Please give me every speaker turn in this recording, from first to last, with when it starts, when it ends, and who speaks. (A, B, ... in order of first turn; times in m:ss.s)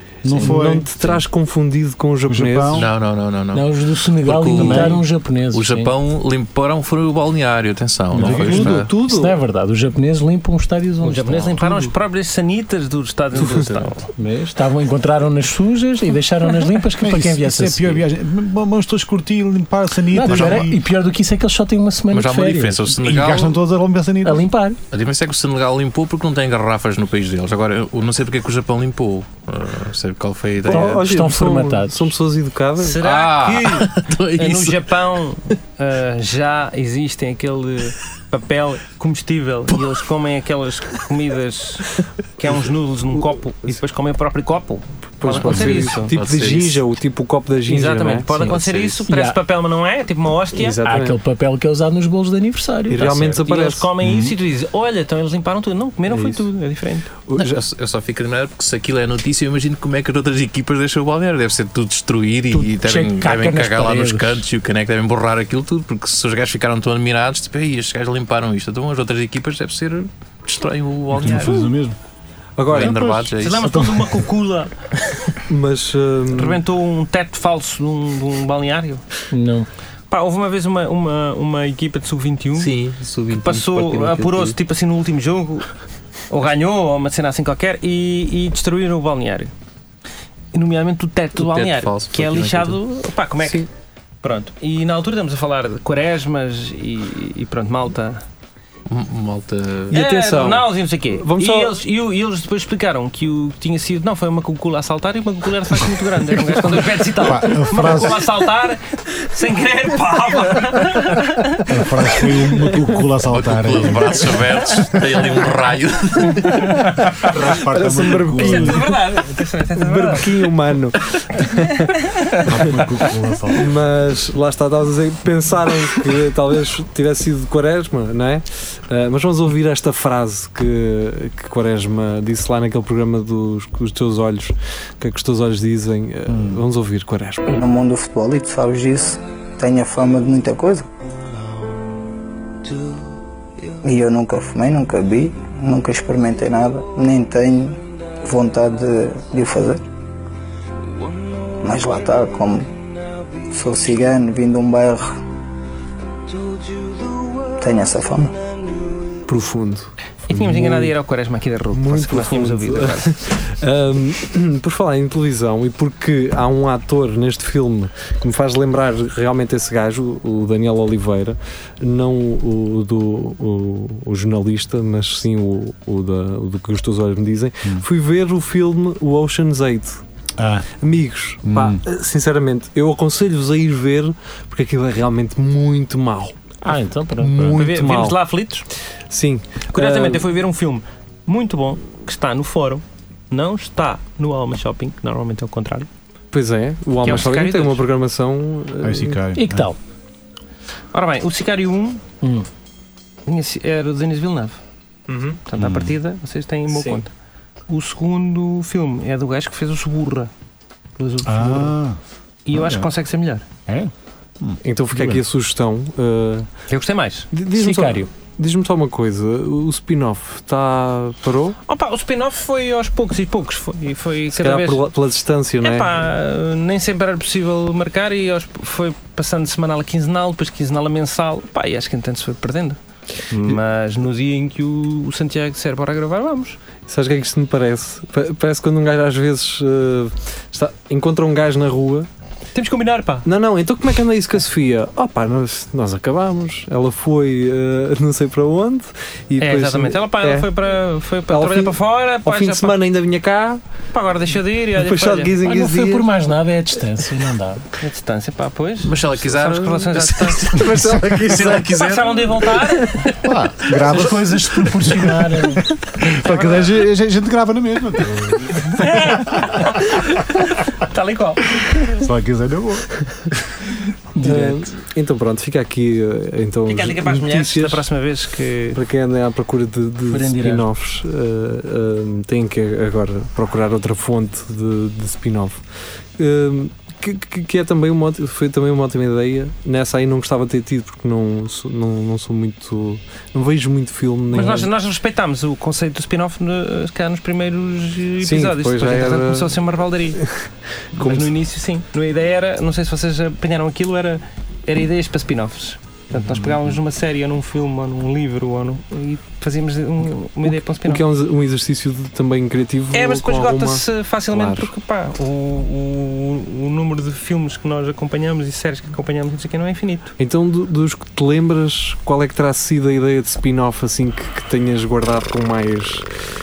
0:00.2-0:00.9 A
0:00.3-0:02.9 B
0:02.3-0:02.9 A
0:02.7-0:08.9 C
0:03.5-0:05.9 D
0:08.1-0:11.9 D
0:08.2-0:09.4 B
0:08.2-0:08.7 A
0:11.0-0:14.0 E
0:13.4-0:14.0 C
0:14.2-0:18.1 D
0:17.0-0:20.8 A
0:20.1-0:22.9 D
0:20.2-0:20.6 C
0:22.1-0:23.6 C
0:22.9-0:24.5 A
0:24.2-0:24.8 D
0:24.9-0:31.0 C
0:30.6-0:33.0 B
0:30.7-0:32.1 D
0:32.8-0:46.1 E
0:33.0-0:34.9 C
0:45.2-0:48.3 B
0:45.3-0:46.8 C
0:47.7-0:50.8 E
0:48.4-0:49.0 C
0:49.1-0:49.4 D
0:50.5-0:51.2 B
0:50.8-0:53.2 D
0:52.9-0:53.9 B
0:53.0-0:57.1 E
0:54.0-0:54.4 A
0:56.1-0:56.5 B
0:57.3-0:57.6 B
0:57.4-1:11.7 C
1:02.5-1:04.4 D
1:11.1-1:12.0 A
1:12.6-1:13.0 B
1:12.7-1:13.7 C
1:12.7-1:14.2 A
1:13.4-1:14.7 E
1:15.5-1:16.6 B
1:16.3-1:19.0 E
1:19.3-1:19.7 D
1:20.1-1:22.7 E
1:22.6-1:24.6 C
1:23.3-1:25.7 E
1:26.3-1:29.5 E
1:30.5-1:33.7 E
1:31.4-1:32.8 C
1:34.2-1:38.2 E
1:38.9-1:40.0 C
1:39.9-1:41.8 B
1:39.9-1:51.6 E
1:47.1-1:48.4 A
1:51.7-1:54.9 A
1:53.3-1:56.7 C
1:56.9-1:58.9 A
1:57.5-1:58.9 B
1:58.3-2:00.3 E
1:59.7-2:01.8 B
2:02.4-2:03.7 A
2:03.5-2:17.6 B
2:16.3-2:16.6 A
2:17.6-2:20.9 F
2:23.8-2:29.8 F
2:31.6-2:32.7 F
2:33.5-2:35.2 F
2:37.6-2:38.3 F
2:39.3-2:41.0 B
2:40.3-2:43.2 E
2:41.7-3:00.0 B
3:00.4-3:00.7 A
3:00.8-3:06.6 B
3:01.4-3:01.8 A
3:06.6-3:07.4 D
3:07.2-3:08.2 B
3:07.4-3:08.6 E
3:09.1-3:10.3 B
3:09.7-3:15.9 E
3:16.3-3:19.2 B
3:17.0-3:17.8 E
3:18.8-3:19.7 A
3:19.3-3:19.8 D
3:20.9-3:22.0 E
3:22.2-3:22.5 D
3:23.2-3:24.6 E
3:25.1-3:25.4 B
3:25.5-3:27.1 E
3:25.6-3:25.9 A
3:26.7-3:27.0 B
3:27.7-3:30.3 E
3:31.0-3:31.8 E
3:31.2-3:32.0 A
3:32.4-3:33.4 E
3:32.5-3:32.9 A
3:33.7-3:35.2 A
3:34.6-3:36.5 B
3:36.7-3:37.3 E
3:37.3-3:41.6 B
3:37.6-3:38.0 D
3:41.7-3:44.9 E
3:44.3-3:46.1 B
3:45.6-3:52.8 E
3:53.3-3:56.6 E
3:56.9-4:02.1 B
4:02.5-4:03.2 E
4:03.2-4:10.5 B
4:09.4-4:12.8 E
4:11.3-4:13.6 B
4:13.9-4:15.4 E
4:14.7-4:16.1 B
4:15.4-4:17.6 D
4:17.8-4:20.6 E
4:18.8-4:22.5 C
4:20.6-4:21.8 B
4:21.6-4:23.1 E
4:23.2-4:30.4 A
4:23.8-4:25.6 D
4:26.0-4:26.8 E
4:28.7-4:32.0 E
4:31.8-4:33.1 A
4:34.1-4:34.7 D
4:34.2-4:37.8 B
4:36.7-4:38.8 E
4:38.7-4:45.6 B
4:40.1-4:40.6 D
4:46.2-4:54.7 B
4:54.3-5:00.2 E
4:58.2-4:59.6 B
5:00.9-5:01.4 B
5:01.0-5:11.0 E
5:10.4-5:14.7 B
5:12.9-5:20.1 E
5:20.2-5:26.1 B